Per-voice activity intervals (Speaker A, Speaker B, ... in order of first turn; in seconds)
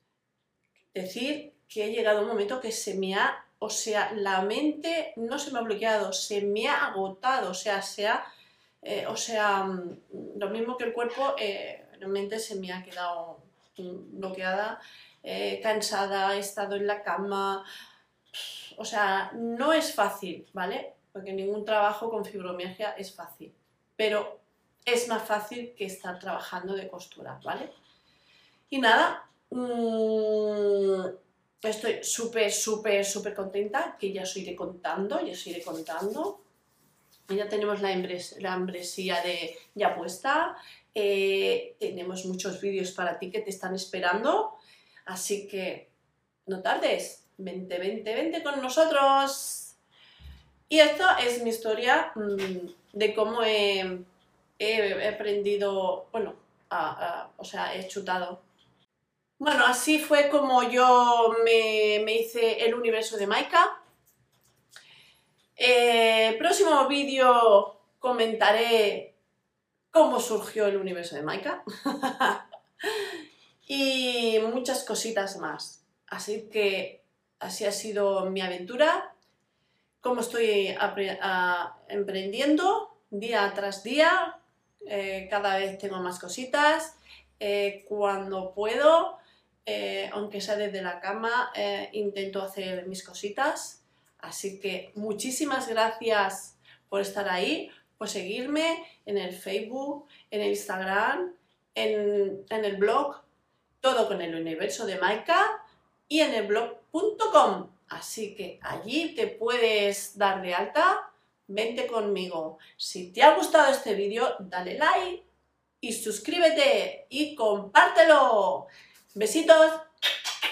Speaker A: 0.9-8.2, 8.8-17.6, 18.3-27.7, 28.7-36.4, 37.3-45.9, 46.5-49.8, 50.7-54.1, 54.6-58.4, 59.4-63.8, 65.6-69.1, 69.9-73.2, 73.7-79.1, 80.0-103.3, 103.8-115.2, 115.8-119.9